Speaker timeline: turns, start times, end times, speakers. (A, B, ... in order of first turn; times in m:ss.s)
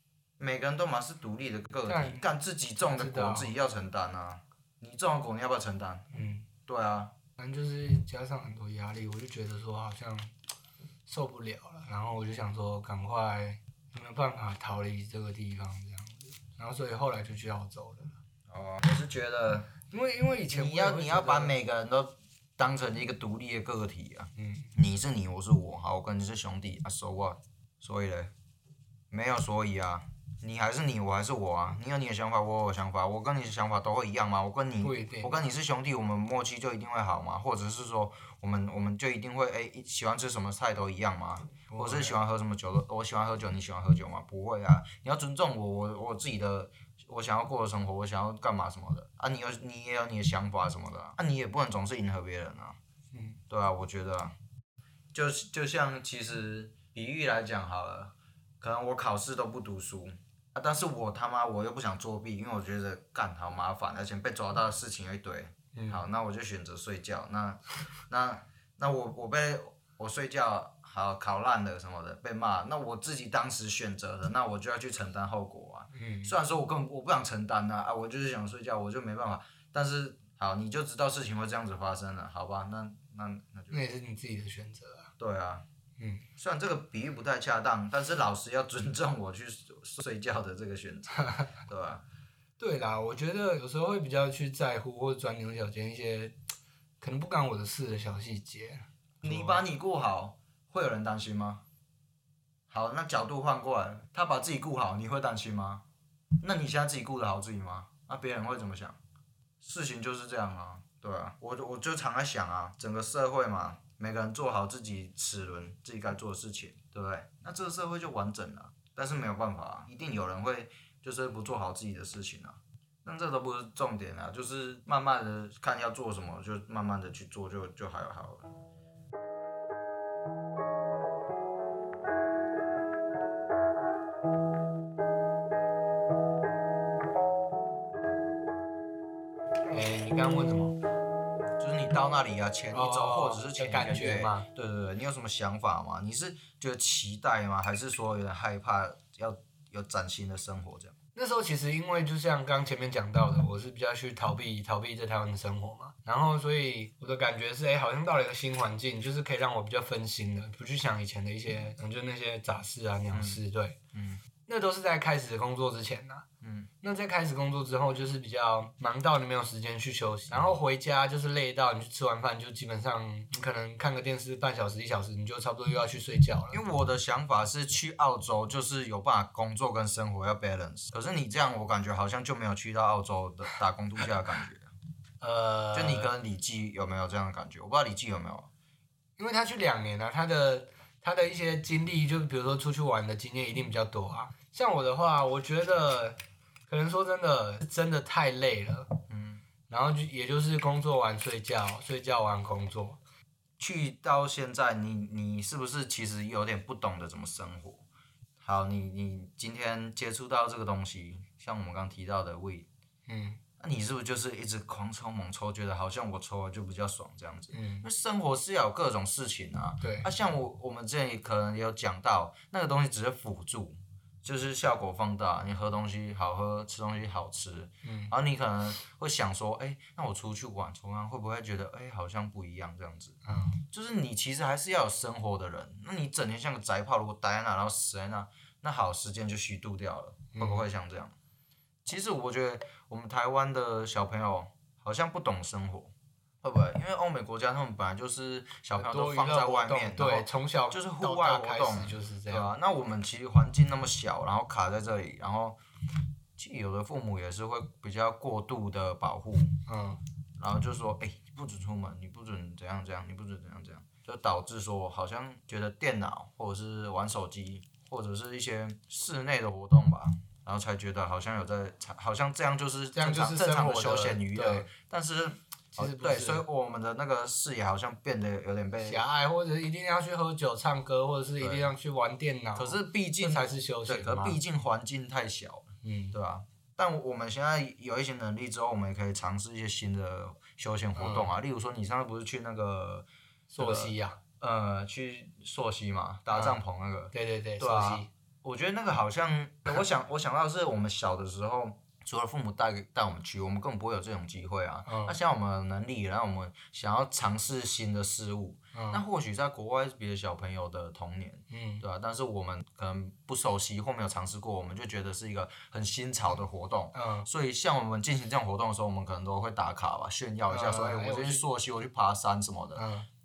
0:00.4-0:06.1 A
0:01.9-0:02.3 B
0:02.8-0:03.5 B
0:06.1-0:06.5 B
0:06.7-0:07.2 A
0:07.4-0:10.3 B
0:11.1-0:18.2 B
0:18.5-0:19.7 A
0:19.9-0:21.6 B
0:20.5-0:28.3 A
0:24.4-0:24.7 B
0:29.1-0:52.8 A
0:34.8-0:35.3 B
0:41.7-0:42.2 B
0:53.1-0:53.4 B
0:53.5-0:54.3 A
0:55.1-1:23.8 A
1:05.7-1:06.0 B
1:15.9-1:16.4 B
1:23.7-1:25.1 B
1:25.2-1:25.6 A
1:26.0-1:26.2 B
1:26.4-1:32.0 A
1:31.2-1:31.5 B
1:32.6-1:36.4 B
1:37.0-1:39.6 B
1:39.2-1:41.6 A
1:42.7-1:45.8 A
1:46.4-1:49.0 A
1:49.6-2:08.5 A
2:19.7-2:20.8 B
2:21.6-2:30.9 A
2:22.7-2:24.5 B
2:31.2-2:43.8 B
2:43.1-2:43.4 A
2:43.9-2:44.2 A
2:44.5-2:46.2 B
2:46.4-2:46.7 A
2:46.8-2:56.6 B
2:50.3-2:50.6 A
2:56.5-3:04.7 A
3:05.2-3:06.1 B
3:05.7-3:08.5 A
3:09.2-3:18.9 B
3:19.1-3:19.4 A
3:19.7-3:23.0 B
3:23.6-3:27.8 A
3:28.4-3:32.7 A
3:33.1-3:33.4 B
3:33.6-3:53.2 A
3:37.5-3:37.9 B
3:39.8-3:40.1 B
3:47.8-3:48.1 B
3:53.2-3:53.6 B
3:53.7-4:01.1 A
4:00.4-4:00.7 B
4:01.8-4:15.6 A
4:08.7-4:12.5 B
4:16.4-4:19.6 A
4:19.7-4:20.0 B
4:20.4-4:39.0 A
4:33.0-4:34.7 B
4:35.8-4:36.4 B
4:38.8-4:44.4 B
4:41.4-4:41.7 A
4:42.6-4:53.1 A
4:45.8-4:46.2 B
4:51.0-4:51.3 B
4:53.5-4:54.2 B
4:53.6-5:22.9 A
4:56.3-4:56.6 B
4:57.1-4:58.1 B
5:04.9-5:05.2 B
5:08.7-5:09.0 B
5:11.5-5:11.8 B
5:16.9-5:17.3 B
5:20.5-5:21.4 B
5:22.8-5:23.1 B